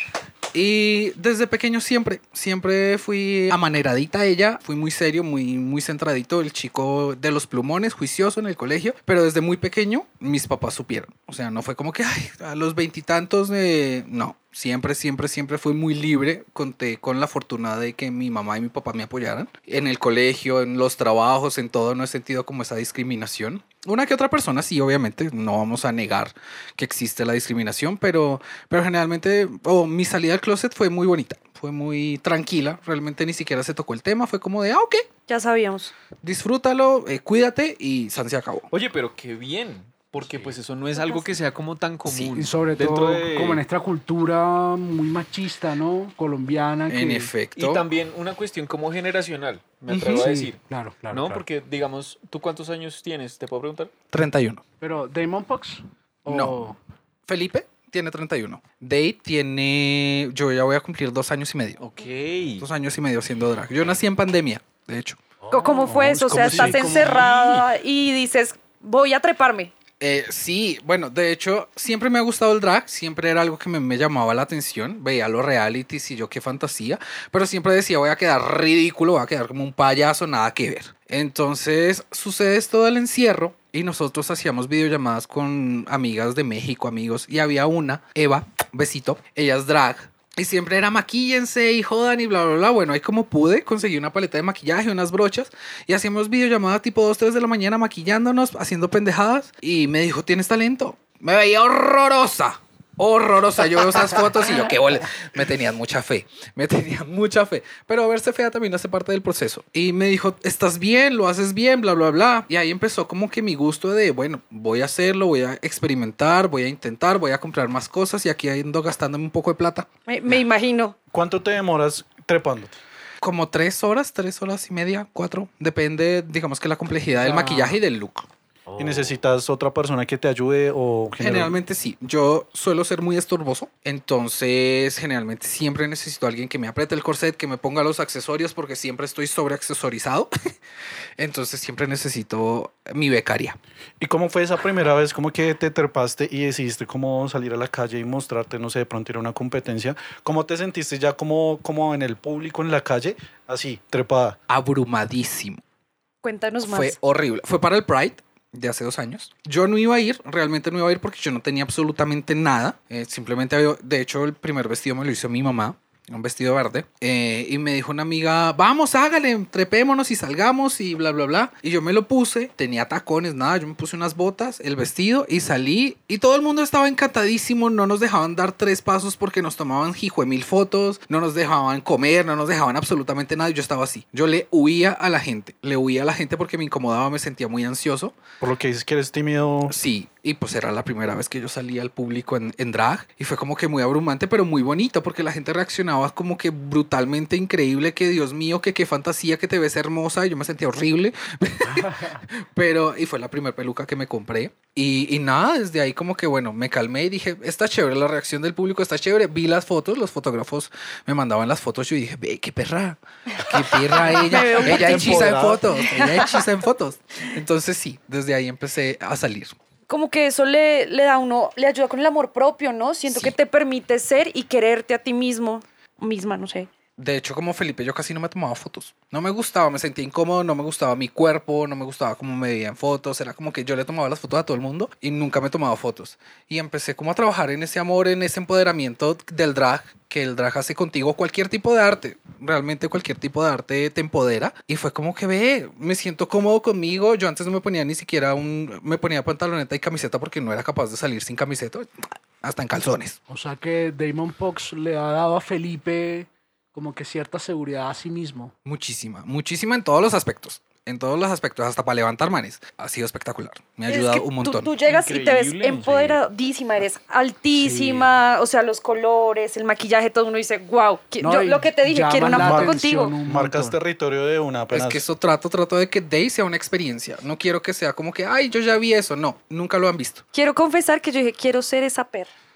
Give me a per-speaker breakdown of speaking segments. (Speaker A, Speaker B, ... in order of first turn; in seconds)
Speaker A: 0.5-35.0, 36.2-38.7, 46.9-47.8, 49.9-50.2, 54.1-54.6, 56.3-56.6, 57.3-61.8, 62.6-65.2, 66.2-67.0, 70.0-119.9, 123.2-128.3, 131.2-140.3, 141.2-143.6, 154.5-155.6, 156.6-188.2, 189.7-219.6, 223.1-223.3, 227.0-251.9, 252.4-253.2, 258.6-264.7, 274.7-280.2
Speaker B: 35.3-35.9, 41.0-41.3, 65.5-69.7, 120.1-120.9, 156.2-156.9, 214.0-216.3, 219.9-226.7, 263.9-273.1, 280.3-282.3
Speaker C: 38.7-43.6, 47.5-50.6, 51.1-53.9, 61.8-62.6, 264.8-266.2
Speaker D: 42.3-47.3, 50.0-51.4, 54.8-56.8, 65.4-67.6, 127.2-127.7, 128.7-129.1, 201.7-202.1, 253.3-258.5, 267.5-268.1, 271.2-273.8
Speaker E: 66.3-67.0, 121.1-122.7, 128.8-131.6, 144.0-154.4, 188.4-189.7, 214.6-215.7, 272.2-275.0